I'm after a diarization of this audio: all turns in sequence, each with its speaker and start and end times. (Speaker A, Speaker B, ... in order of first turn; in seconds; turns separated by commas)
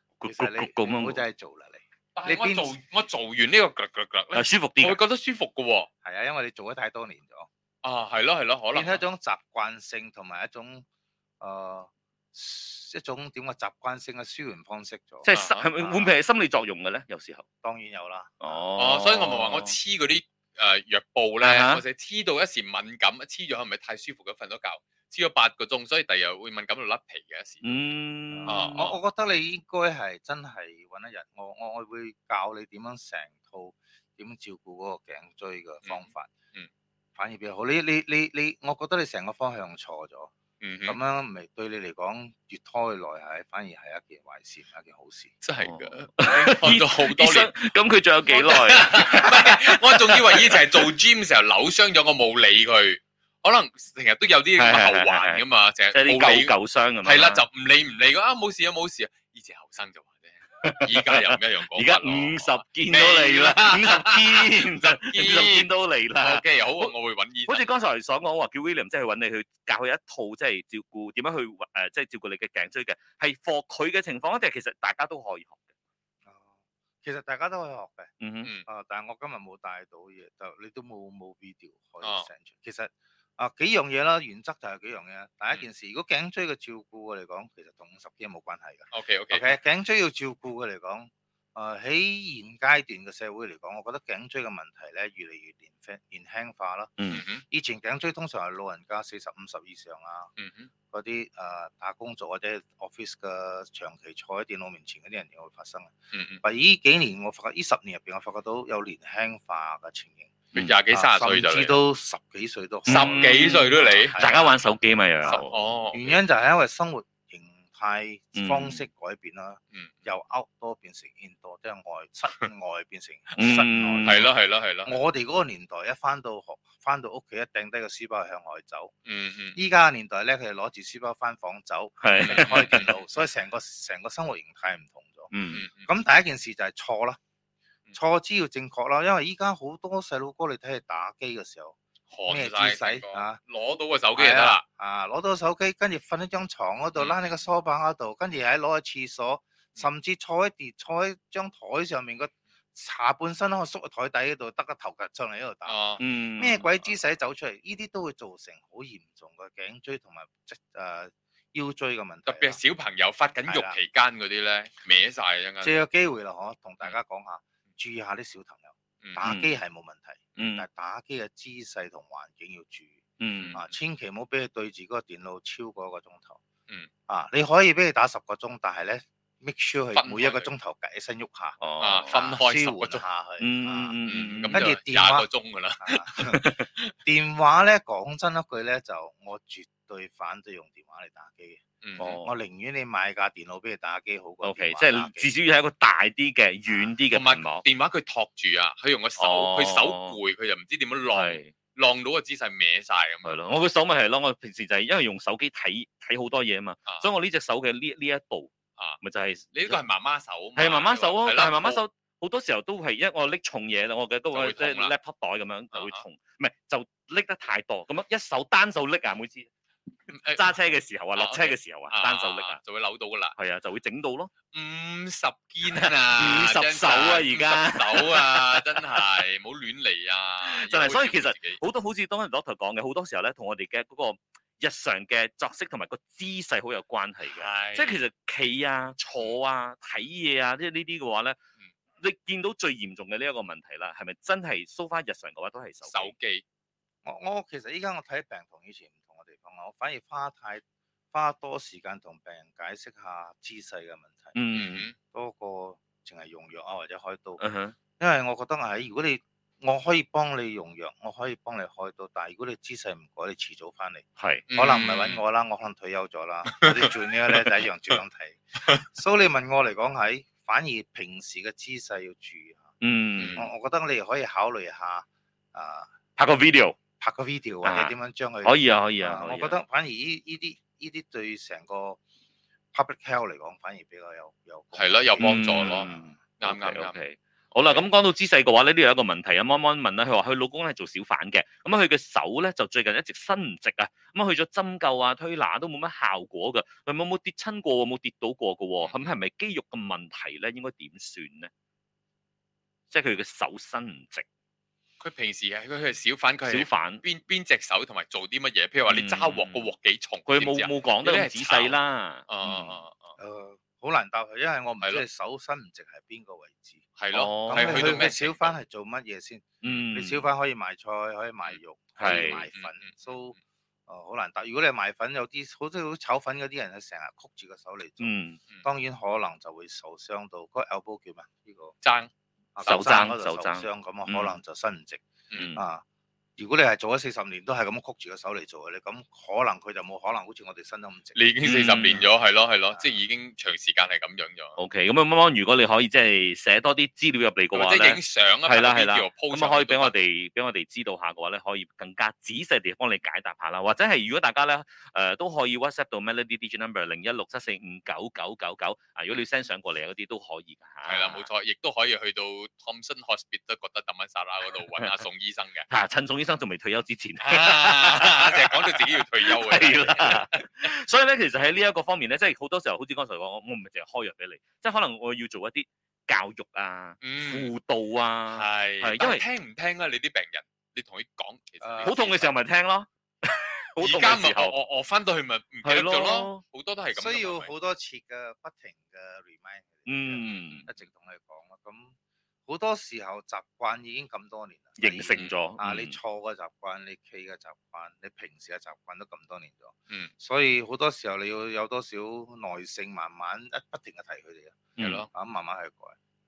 Speaker A: 0.2-1.2, Speaker B: 0.2-2.8, Speaker C: 2.1-5.9, Speaker A: 4.3-5.0, Speaker B: 6.0-7.5, Speaker C: 7.8-9.0, Speaker B: 8.7-10.8, Speaker B: 11.4-16.1, Speaker A: 15.2-17.4, Speaker C: 15.3-15.7, Speaker B: 17.6-18.6, Speaker A: 18.4-19.8, Speaker C: 18.8-27.8, Speaker A: 21.4-21.8, Speaker A: 27.6-28.9, Speaker B: 28.3-36.3, Speaker C: 28.5-29.0, Speaker C: 35.8-36.7, Speaker B: 37.1-40.3, Speaker C: 40.6-41.0, Speaker B: 40.9-45.3, Speaker C: 45.4-47.5, Speaker A: 45.6-50.9, Speaker C: 48.2-56.5, Speaker A: 54.6-57.4, Speaker C: 57.0-67.6, Speaker A: 60.6-66.9, Speaker A: 67.5-75.6, Speaker B: 76.2-78.1, Speaker A: 78.2-78.5, Speaker B: 78.7-96.9, Speaker C: 82.0-82.3, Speaker C: 88.9-89.4, Speaker C: 97.1-97.4, Speaker B: 97.5-100.3, Speaker C: 100.4-100.7, Speaker B: 100.9-110.3, Speaker C: 106.1-106.4, Speaker C: 110.5-111.8, Speaker B: 110.9-114.5, Speaker A: 112.8-115.6, Speaker C: 112.9-114.3, Speaker B: 115.2-124.3, Speaker C: 115.2-116.2, Speaker A: 118.3-118.8, Speaker A: 123.4-124.3, Speaker C: 124.0-124.9, Speaker B: 124.8-128.9, Speaker C: 129.1-129.6, Speaker B: 129.5-135.3, Speaker A: 132.0-132.9, Speaker C: 132.2-133.0, Speaker A: 135.3-135.6, Speaker C: 135.5-135.9, Speaker B: 135.8-137.2, Speaker B: 137.9-141.8, Speaker C: 142.1-144.6, Speaker B: 142.3-143.4, Speaker B: 144.2-155.8, Speaker C: 147.0-147.2, Speaker C: 155.7-156.0, Speaker A: 156.0-156.7, Speaker B: 156.4-162.6, Speaker C: 162.3-165.8, Speaker B: 163.5-163.8, Speaker B: 165.6-173.0, Speaker A: 169.2-169.5, Speaker A: 170.4-170.7, Speaker A: 173.2-173.6, Speaker C: 173.3-173.7, Speaker B: 173.5-176.4, Speaker B: 177.1-184.0, Speaker C: 179.9-180.5, Speaker A: 181.6-182.2, Speaker C: 181.8-183.0, Speaker A: 183.4-184.7, Speaker C: 184.0-186.2, Speaker B: 184.5-185.3, Speaker B: 185.8-186.5, Speaker A: 186.3-186.7, Speaker B: 187.0-195.3, Speaker C: 191.8-192.2, Speaker A: 192.0-192.3, Speaker A: 194.4-197.6, Speaker C: 197.1-203.4, Speaker A: 199.2-200.2, Speaker A: 201.1-201.5, Speaker A: 203.2-209.8, Speaker C: 209.5-211.8, Speaker A: 210.6-219.5, Speaker C: 214.3-214.9, Speaker C: 215.7-216.0, Speaker C: 220.1-220.5, Speaker A: 220.3-222.6, Speaker C: 221.1-223.3, Speaker A: 223.4-224.3, Speaker C: 224.5-231.6, Speaker A: 225.7-229.1, Speaker A: 230.4-241.4, Speaker C: 237.3-238.0, Speaker A: 242.0-246.1, Speaker C: 245.8-246.4, Speaker B: 247.0-254.3, Speaker A: 254.3-254.9, Speaker C: 254.5-254.9, Speaker B: 255.1-257.4, Speaker A: 257.4-257.8, Speaker B: 258.0-272.7, Speaker A: 264.2-264.4, Speaker C: 264.5-265.2, Speaker C: 266.5-267.5, Speaker A: 272.8-273.5, Speaker C: 273.2-273.4, Speaker B: 273.4-275.9, Speaker A: 276.2-276.8, Speaker B: 277.0-282.0, Speaker A: 277.6-279.6, Speaker B: 282.7-286.1, Speaker C: 284.7-286.9, Speaker A: 285.2-301.5, Speaker C: 298.8-299.1, Speaker A: 302.9-304.2, Speaker C: 305.0-311.8, Speaker A: 306.4-307.0, Speaker A: 308.9-309.7, Speaker A: 310.3-312.8, Speaker C: 312.3-313.1, Speaker B: 313.2-316.8, Speaker C: 317.0-318.6, Speaker A: 317.1-318.0, Speaker B: 317.4-331.8, Speaker A: 319.6-320.3, Speaker C: 321.4-323.2, Speaker A: 322.0-322.5, Speaker A: 328.0-328.4, Speaker C: 331.8-332.1, Speaker B: 332.5-335.8, Speaker A: 332.6-334.4, Speaker C: 335.3-335.6, Speaker A: 335.3-335.6, Speaker B: 336.4-341.3, Speaker C: 341.1-344.6, Speaker A: 341.4-342.1, Speaker A: 344.6-361.2, Speaker C: 347.5-349.9, Speaker C: 360.9-365.7, Speaker A: 364.8-365.0, Speaker A: 365.7-379.2, Speaker C: 367.2-370.4, Speaker C: 377.0-377.5, Speaker C: 378.3-382.3, Speaker B: 381.6-382.1, Speaker A: 381.8-384.5, Speaker C: 383.8-387.5, Speaker A: 385.6-386.4, Speaker B: 386.9-391.9, Speaker A: 389.9-390.6, Speaker C: 390.3-390.7, Speaker B: 392.4-404.6, Speaker A: 394.8-396.0, Speaker A: 404.8-405.1, Speaker C: 404.8-405.1, Speaker B: 405.1-405.9